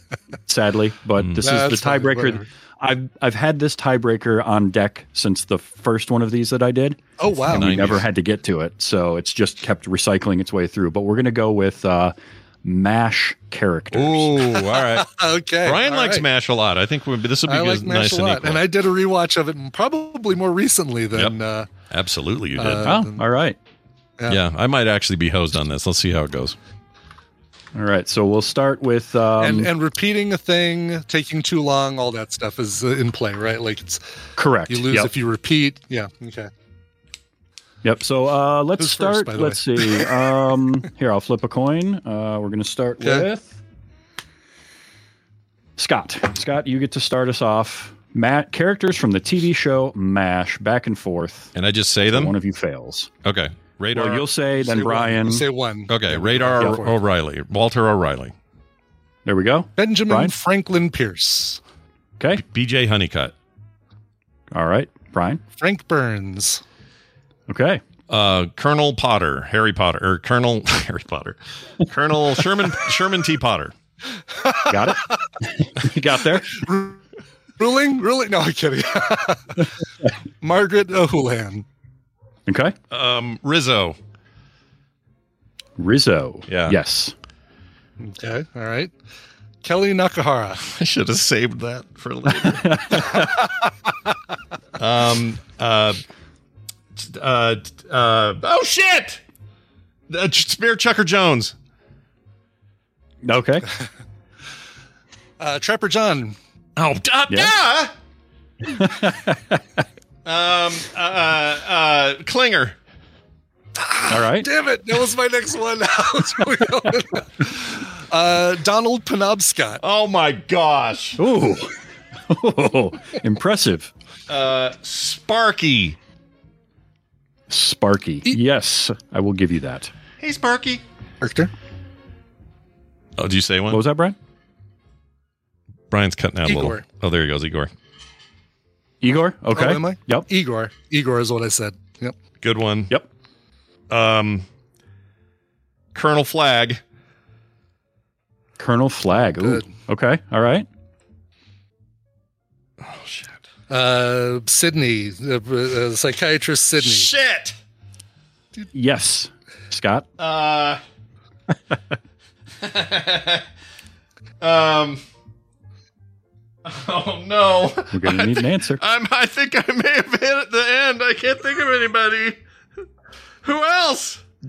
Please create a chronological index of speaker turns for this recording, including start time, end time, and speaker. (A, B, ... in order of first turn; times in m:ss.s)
0:00.5-0:14.4 A
0:01.2-0:01.4 B
0:01.4-0:02.5 C
0:07.2-0:07.7 C
0:07.5-0:08.1 B
0:13.9-0:15.1 B
0:14.4-0:16.3 C
0:15.6-0:18.6 B
0:17.5-0:21.7 C
0:21.9-0:23.0 B
0:22.6-0:23.3 C
0:22.8-0:23.6 A
0:24.3-0:26.6 B
0:27.7-0:29.7 A
0:29.4-0:34.0 C
0:34.4-0:35.1 A
0:34.7-0:36.5 C
0:37.8-0:43.6 A
0:38.8-0:40.5 C
0:43.0-0:43.3 C
0:45.8-0:51.5 A
0:51.6-0:52.4 B
0:52.1-0:53.1 A
0:53.2-0:54.3 B
0:53.9-0:55.5 A
0:54.6-0:57.0 C
0:55.9-0:58.3 B
0:59.3-1:00.4 A
0:59.8-1:01.6 C
1:02.3-1:03.3 B
1:04.5-1:05.4 A
1:05.6-1:06.6 C
1:07.5-1:07.8 A
1:08.1-1:13.7 B
1:14.4-1:15.1 C
1:14.7-1:16.6 A
1:16.5-1:17.0 C
1:17.6-1:19.6 C
1:20.4-1:21.6 C
1:22.5-1:22.8 A
1:22.9-1:24.0 B
1:25.8-1:27.1 A
1:26.5-1:26.8 B
1:28.0-1:28.9 C
1:29.6-1:30.6 C
1:30.6-1:33.3 B
1:32.3-1:33.3 A
1:34.8-1:36.0 B
1:37.0-1:39.2 B
1:40.1-1:41.5 B
1:43.2-1:43.7 A
1:45.4-1:46.4 C
1:46.8-1:47.9 B
1:48.6-1:49.6 A
1:50.2-1:52.8 B
1:53.8-1:59.8 C
1:54.1-1:54.5 A
1:59.8-2:01.2 B
2:01.2-2:01.7 A
2:02.3-2:03.9 A
2:04.3-2:06.0 B
2:07.5-2:09.9 A
2:10.2-2:10.8 B
2:11.2-2:11.5 C
2:13.2-2:13.8 B
2:13.7-2:14.2 A
2:15.9-2:17.7 B
2:16.4-2:16.8 C
2:19.0-2:20.3 A
2:19.5-2:22.2 C
2:22.4-2:23.0 B
2:23.9-2:24.4 B
2:25.9-2:26.8 B
2:28.6-2:30.7 A
2:29.4-2:29.6 C
2:32.8-2:33.4 B
2:33.7-2:37.1 C
2:36.8-2:37.6 B
2:38.7-2:40.1 A
2:40.2-2:40.8 B
2:42.6-2:43.4 B
2:44.4-2:45.0 B
2:46.6-2:52.4 B
2:47.9-2:48.8 A
2:53.4-2:54.2 B